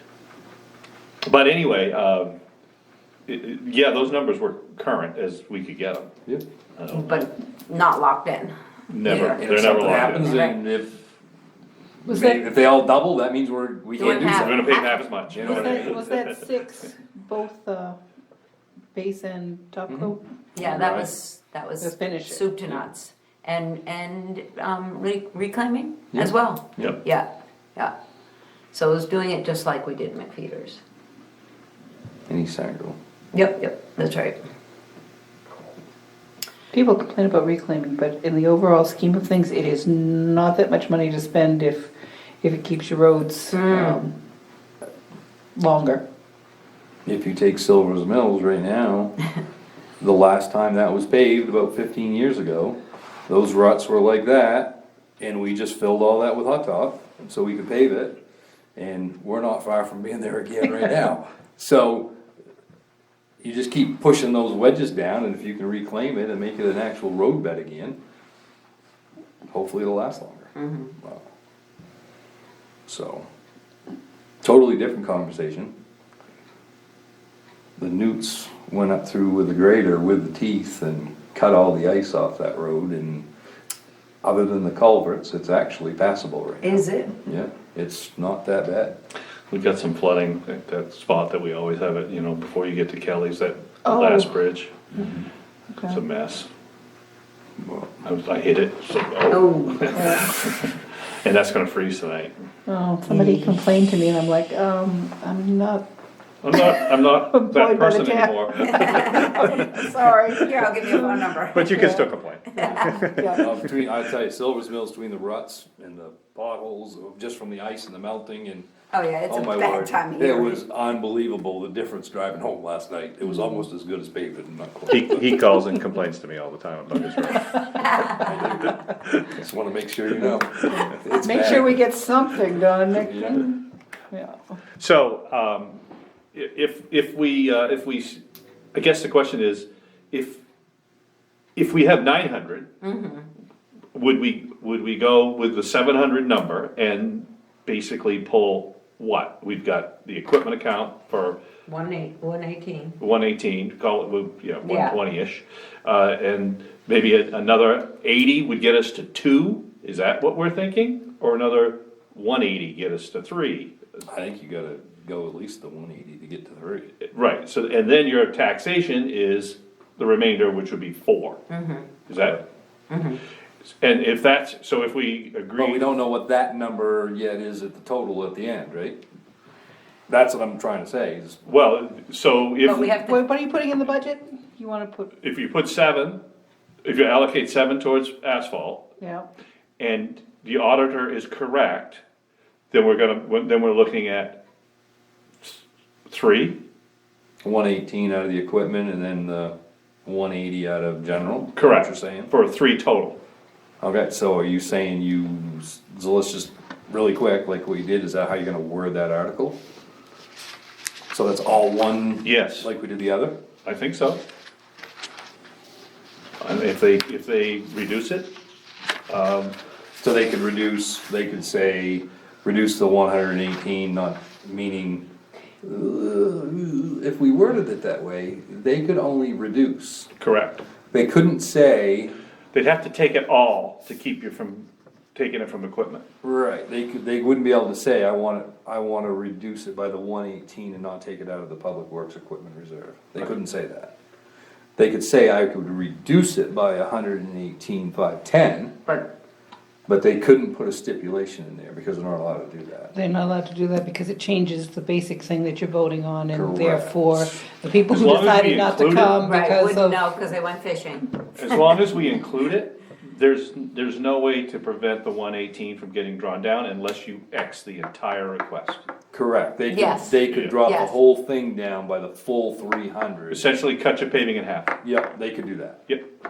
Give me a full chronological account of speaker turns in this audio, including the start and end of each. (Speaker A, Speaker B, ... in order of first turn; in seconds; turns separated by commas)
Speaker A: 1.2-2.4, Speaker A: 3.3-6.1, Speaker A: 6.8-7.3, Speaker B: 6.9-10.6, Speaker A: 8.9-10.3, Speaker C: 9.1-11.0, Speaker C: 12.0-14.7, Speaker D: 12.1-12.4, Speaker B: 14.0-15.1, Speaker A: 14.0-16.4, Speaker C: 15.3-16.0, Speaker D: 15.4-18.0, Speaker D: 18.9-20.2, Speaker C: 19.9-21.1, Speaker B: 20.6-27.9, Speaker D: 21.8-22.4, Speaker C: 26.1-27.0, Speaker B: 28.7-30.8, Speaker C: 32.3-33.0, Speaker B: 33.3-34.4, Speaker D: 36.7-44.1, Speaker B: 43.5-44.0, Speaker D: 45.5-46.0, Speaker C: 47.0-49.2, Speaker C: 50.0-52.8, Speaker C: 53.3-58.2, Speaker C: 58.8-62.1, Speaker C: 63.4-68.0, Speaker C: 69.5-71.3, Speaker B: 70.6-70.9, Speaker C: 72.9-73.3, Speaker C: 74.4-75.7, Speaker C: 77.8-83.2, Speaker C: 84.2-89.0, Speaker B: 86.6-87.2, Speaker A: 89.5-94.8, Speaker D: 93.9-94.3, Speaker D: 95.7-96.0, Speaker A: 95.9-96.5, Speaker C: 97.6-97.9, Speaker A: 98.0-102.3, Speaker B: 99.3-100.3, Speaker D: 99.9-100.2, Speaker D: 102.7-105.8, Speaker B: 103.0-103.6, Speaker A: 106.4-110.0, Speaker D: 106.5-110.4, Speaker B: 108.6-109.7, Speaker B: 110.3-111.9, Speaker A: 111.5-113.4, Speaker D: 111.8-112.1, Speaker B: 112.5-112.9, Speaker C: 112.6-118.7, Speaker D: 112.9-113.5, Speaker B: 118.9-120.6, Speaker C: 119.3-125.6, Speaker A: 124.9-129.2, Speaker B: 127.7-128.3, Speaker C: 128.1-131.8, Speaker D: 131.2-134.5, Speaker C: 132.9-133.5, Speaker A: 134.8-135.8, Speaker A: 136.3-138.2, Speaker A: 138.7-140.4, Speaker A: 141.6-142.7, Speaker B: 142.8-143.3, Speaker A: 143.9-151.4, Speaker B: 151.7-153.0, Speaker A: 153.0-163.7, Speaker B: 154.6-155.0, Speaker C: 164.0-166.9, Speaker A: 167.1-171.4, Speaker B: 171.5-171.9, Speaker A: 172.1-172.4, Speaker B: 172.9-173.2, Speaker A: 173.8-175.8, Speaker C: 175.6-179.0, Speaker C: 180.1-181.4, Speaker A: 181.4-182.9, Speaker B: 182.6-183.2, Speaker D: 183.0-185.1, Speaker A: 185.2-186.2, Speaker A: 186.8-188.8, Speaker D: 189.0-189.3, Speaker A: 189.8-192.0, Speaker A: 192.7-194.4, Speaker A: 195.4-196.6, Speaker C: 197.4-202.3, Speaker A: 201.5-203.2, Speaker C: 203.8-209.6, Speaker C: 211.1-213.4, Speaker A: 212.2-212.7, Speaker A: 213.6-214.2, Speaker A: 216.4-218.3, Speaker A: 219.1-219.5, Speaker C: 220.0-225.1, Speaker C: 225.6-230.1, Speaker A: 230.2-230.6, Speaker C: 230.9-232.1, Speaker A: 232.5-236.0, Speaker C: 236.2-243.9, Speaker C: 244.8-248.8, Speaker C: 249.9-252.9, Speaker D: 252.9-260.0, Speaker C: 256.3-257.4, Speaker A: 257.9-259.2, Speaker B: 259.2-261.7, Speaker A: 261.4-268.9, Speaker C: 269.1-273.5, Speaker B: 269.7-271.0, Speaker A: 273.3-274.8, Speaker C: 274.8-275.8